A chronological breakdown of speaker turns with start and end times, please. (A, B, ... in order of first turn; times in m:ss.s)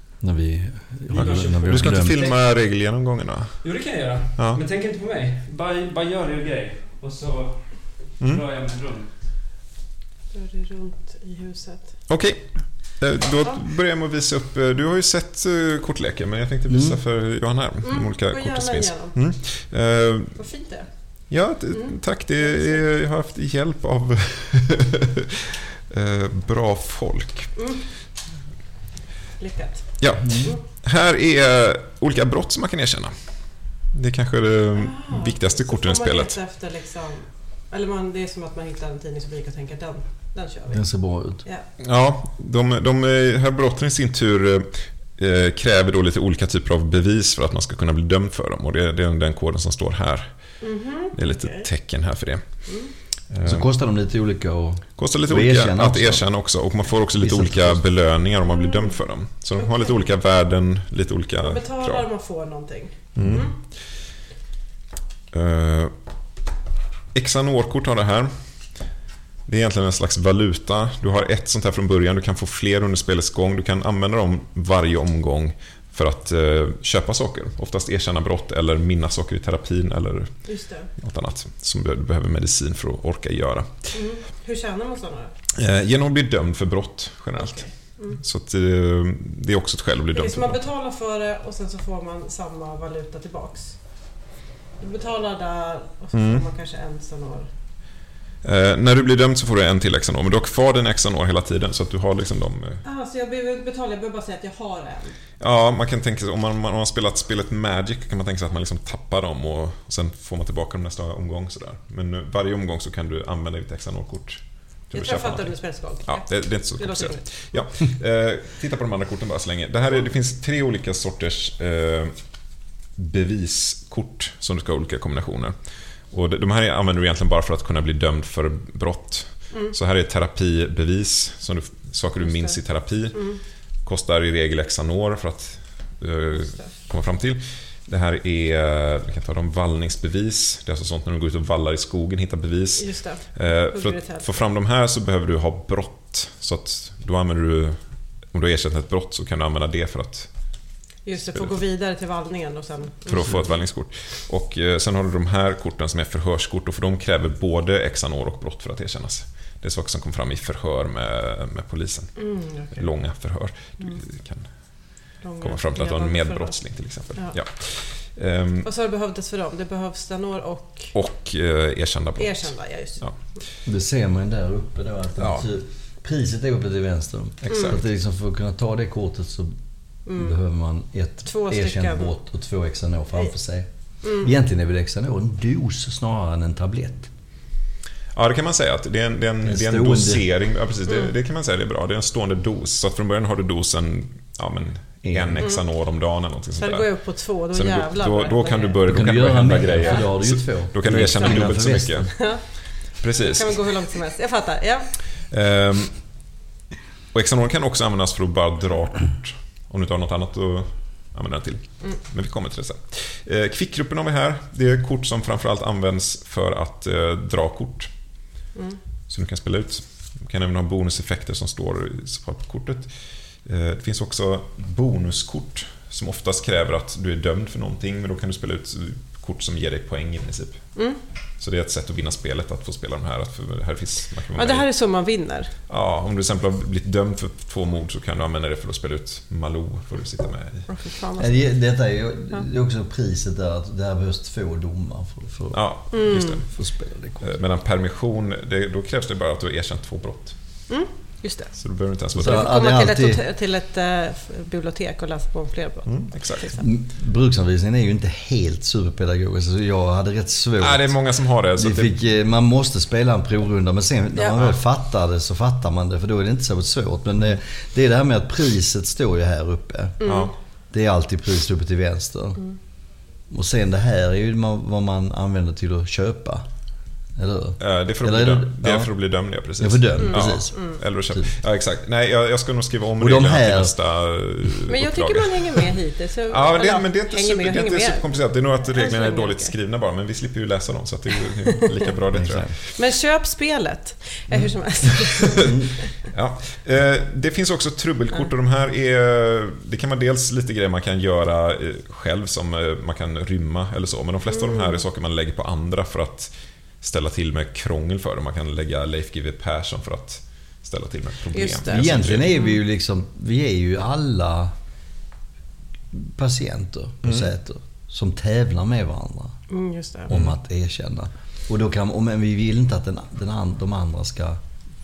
0:00.2-0:02.1 A
0:01.1-0:02.8 B
0:01.1-0:04.6 C
0:03.6-0:09.3 B
0:10.3-0:12.1 D
0:12.1-0:20.4 C
0:16.7-0:17.0 A
0:17.8-0:19.2 D
0:20.3-0:22.9 D
0:21.3-0:25.0 C
0:25.9-0:27.6 C
0:27.6-0:28.0 D
0:29.4-0:30.6 D
0:30.0-0:36.4 C
0:30.2-0:30.6 A
0:34.7-0:40.9 D
0:40.7-0:41.4 A
0:41.4-0:41.7 D
0:41.8-0:53.7 C
0:50.6-0:51.7 D
0:52.6-0:52.9 D
0:53.4-0:57.9 A
0:55.0-1:02.1 C
0:58.5-0:58.9 D
0:59.6-1:00.0 D
1:01.4-1:03.6 D
1:03.1-1:03.6 C
1:03.2-1:03.5 A
1:05.3-1:05.9 C
1:07.1-1:08.9 C
1:09.4-1:24.1 C
1:20.4-1:20.9 D
1:23.9-1:25.3 D
1:25.5-1:30.6 C
1:27.4-1:28.2 D
1:30.1-1:34.2 D
1:34.8-1:37.5 D
1:36.1-1:36.4 C
1:38.4-1:42.8 C
1:42.8-1:45.2 D
1:45.4-2:31.6 C
1:54.9-1:57.6 D
2:12.2-2:13.4 D
2:16.3-2:16.7 D
2:22.8-2:24.2 D
2:31.0-2:33.6 D
2:33.1-2:48.7 C
2:42.2-2:44.0 D
2:45.2-2:47.4 D
2:48.6-2:51.0 D
2:50.9-2:53.2 C
2:52.2-2:53.4 D
2:53.6-3:07.1 A
2:55.2-2:55.5 C
2:57.4-2:57.8 C
2:57.5-2:57.8 D
3:00.0-3:00.4 D
3:01.2-3:02.1 D
3:04.0-3:04.3 D
3:08.1-3:23.7 C
3:09.4-3:10.3 A
3:10.9-3:11.1 D
3:15.0-3:15.5 A
3:15.4-3:15.8 D
3:16.6-3:19.0 D
3:18.9-3:22.1 A
3:19.8-3:20.1 D
3:20.8-3:25.0 D
3:25.2-3:26.3 C
3:27.1-3:38.2 C
3:39.1-3:50.8 C
3:51.4-3:54.7 C
3:54.3-3:55.5 D
3:55.7-4:00.7 C
4:00.7-4:01.7 D
4:01.2-4:07.2 A
4:05.5-4:10.7 C
4:05.9-4:06.4 D
4:10.7-4:16.6 D
4:11.6-4:12.5 C
4:12.1-4:13.2 A
4:15.9-4:16.6 C
4:16.6-4:30.0 A
4:20.6-4:21.9 C
4:24.1-4:24.5 D
4:30.0-4:30.4 D
4:30.0-4:30.3 C
4:30.7-4:36.5 A
4:37.1-4:38.9 A
4:37.6-4:45.7 C
4:39.6-4:41.3 A
4:40.0-4:40.8 D
4:43.0-4:43.7 A
4:44.7-4:49.5 D
4:46.2-4:52.7 C
4:52.1-4:52.5 A
4:52.7-4:55.6 D
4:54.3-4:55.2 C
4:55.4-4:55.7 A
4:56.0-5:12.3 C
5:04.3-5:04.8 D
5:11.3-5:12.6 D
5:11.7-5:14.5 A
5:15.9-5:19.4 A
5:17.0-5:17.3 C
5:19.5-5:20.1 D
5:20.1-5:24.4 A
5:20.1-5:20.4 C